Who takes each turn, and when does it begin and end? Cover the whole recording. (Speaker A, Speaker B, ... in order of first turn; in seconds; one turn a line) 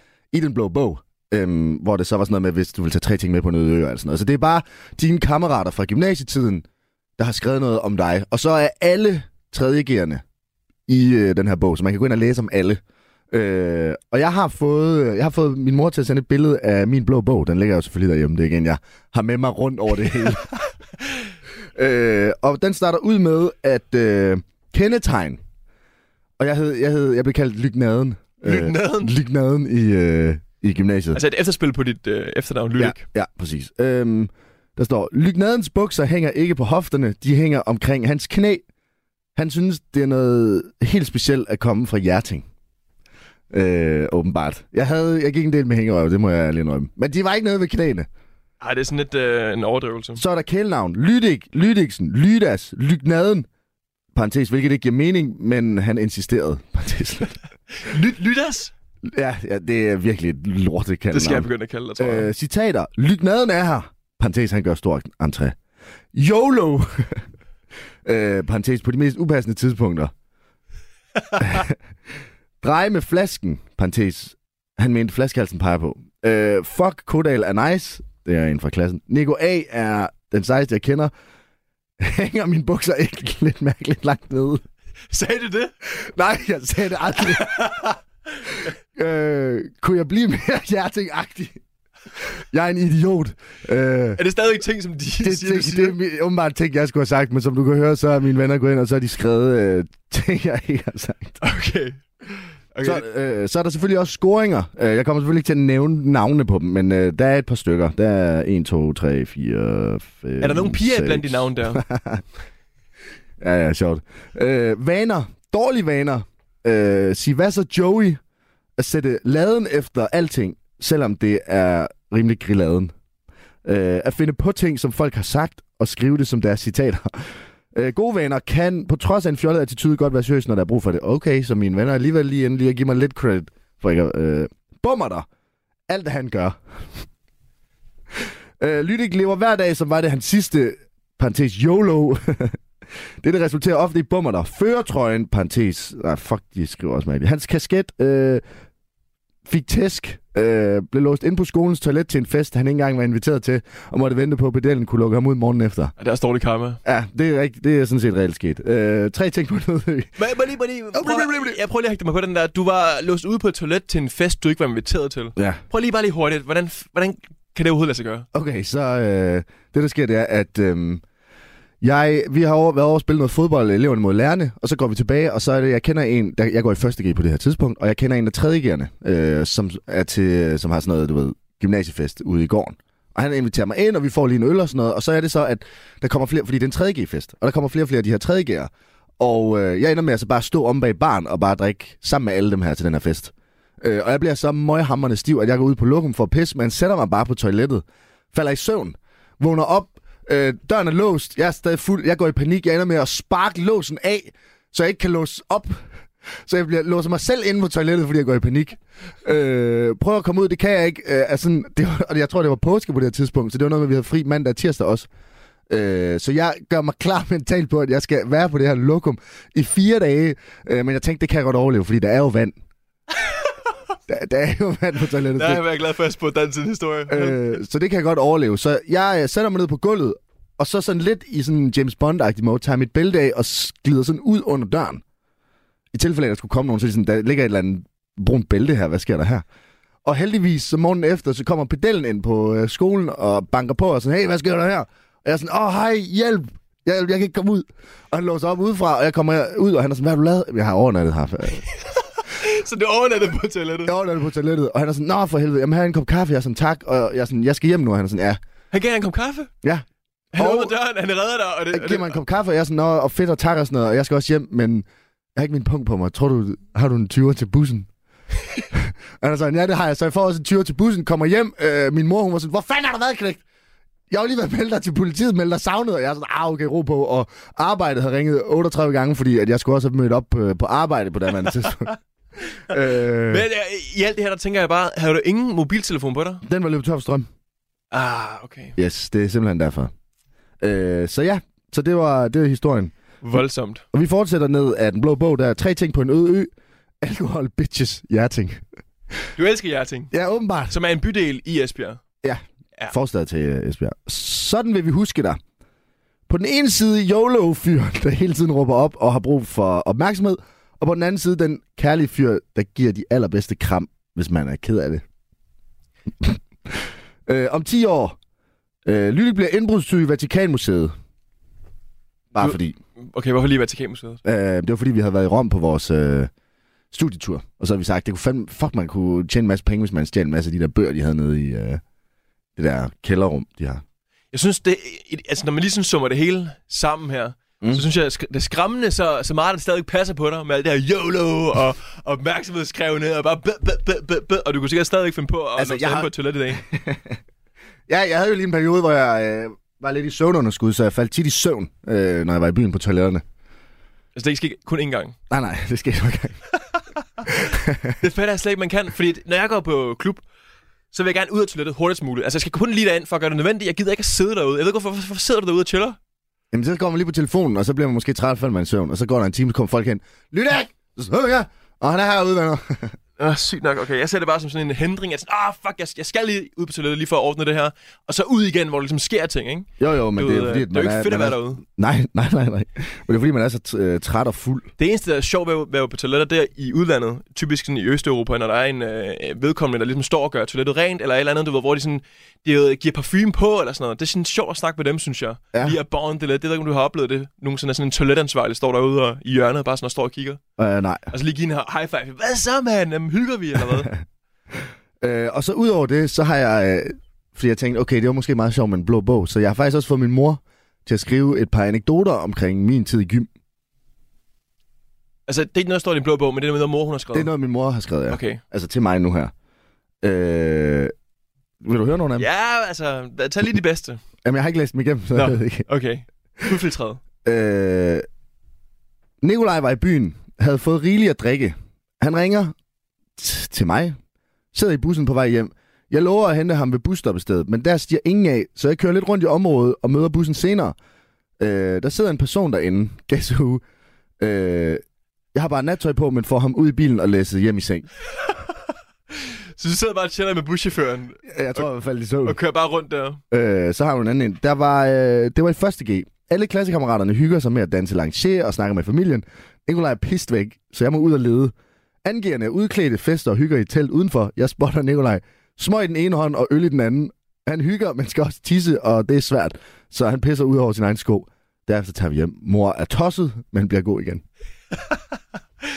Speaker A: 0.3-6.6
Speaker A: 7.2-10.2
Speaker A: 10.9-20.5
Speaker A: 21.8-25.4
Speaker A: 26.4-31.2
Speaker B: 28.4-29.1
Speaker B: 31.1-33.0
Speaker A: 32.8-38.6
Speaker A: 39.4-42.5
Speaker A: 43.5-48.1
Speaker B: 48.6-50.2
Speaker A: 50.1-53.5
Speaker A: 54.1-57.4
Speaker B: 57.8-58.7
Speaker A: 59.0-65.6
Speaker B: 61.1-62.3
Speaker A: 66.1-67.2
Speaker A: 68.0-70.1
Speaker A: 71.4-71.8
Speaker A: 72.6-81.1
Speaker A: 82.0-84.6
Speaker B: 85.1-85.7
Speaker A: 85.9-87.8
Speaker B: 87.3-88.0
Speaker A: 89.0-91.6
Speaker A: 92.5-94.2
Speaker B: 94.2-96.0
Speaker A: 95.2-101.4
Speaker B: 101.4-103.0
Speaker A: 102.8-112.2
Speaker B: 110.4-111.8
Speaker A: 113.4-118.2
Speaker A: 118.8-122.9
Speaker A: 123.6-135.3
Speaker A: 135.9-136.6
Speaker A: 138.6-142.6
Speaker A: 143.2-148.4
Speaker A: 149.5-155.9
Speaker B: 156.0-156.8
Speaker A: 156.8-160.1
Speaker B: 160.2-168.3
Speaker A: 160.9-161.6
Speaker A: 168.3-171.0
Speaker A: 171.8-205.9
Speaker A: 206.5-215.1
Speaker A: 215.7-222.6
Speaker B: 223.1-223.5
Speaker A: 224.1-225.6
Speaker B: 225.4-227.4
Speaker A: 227.1-235.0
Speaker A: 235.9-239.4
Speaker A: 240.1-251.6
Speaker B: 251.8-253.9
Speaker A: 253.8-258.4
Speaker B: 258.7-259.5
Speaker A: 259.6-260.7
Speaker B: 260.3-262.2
Speaker A: 261.7-267.9
Speaker A: 268.7-273.4
Speaker A: 274.1-281.9
Speaker B: 281.6-281.9
Speaker A: 282.7-283.5
Speaker B: 283.3-286.4
Speaker A: 286.4-287.3
Speaker B: 287.9-288.8
Speaker A: 288.8-289.9
Speaker A: 290.6-292.9
Speaker B: 293.2-293.8
Speaker A: 293.9-298.6
Speaker B: 299.4-300.1
Speaker A: 300.1-300.8
Speaker B: 300.7-302.0
Speaker A: 302.2-305.4
Speaker A: 306.3-315.0
Speaker A: 316.2-318.2
Speaker A: 318.9-320.9
Speaker A: 322.3-322.8
Speaker B: 322.4-324.2
Speaker A: 324.2-326.3
Speaker A: 326.9-331.8
Speaker A: 332.6-333.8
Speaker B: 334.3-346.6
Speaker A: 345.6-347.2
Speaker A: 347.9-353.2
Speaker B: 354.1-355.1
Speaker A: 355.3-356.4
Speaker A: 357.3-357.9
Speaker B: 358.0-360.2
Speaker B: 360.9-366.0
Speaker A: 366.5-373.0
Speaker B: 373.2-381.6
Speaker A: 379.8-384.7
Speaker B: 384.8-400.4
Speaker A: 395.5-395.8
Speaker A: 400.6-401.1
Speaker B: 401.1-403.9
Speaker A: 405.0-413.3
Speaker B: 415.3-417.3
Speaker A: 417.1-419.3
Speaker B: 418.1-418.4
Speaker A: 420.0-420.9
Speaker A: 421.6-422.3
Speaker B: 422.2-424.0
Speaker A: 424.2-425.6
Speaker B: 425.1-427.0
Speaker A: 427.2-428.1
Speaker A: 429.2-432.6
Speaker A: 433.2-434.0
Speaker A: 434.5-440.8
Speaker A: 441.4-443.6
Speaker A: 444.2-444.8
Speaker A: 445.3-447.9
Speaker B: 449.1-451.6
Speaker A: 451.3-452.4
Speaker B: 452.2-453.2
Speaker A: 453.3-461.5
Speaker A: 462.0-474.2
Speaker B: 474.7-475.0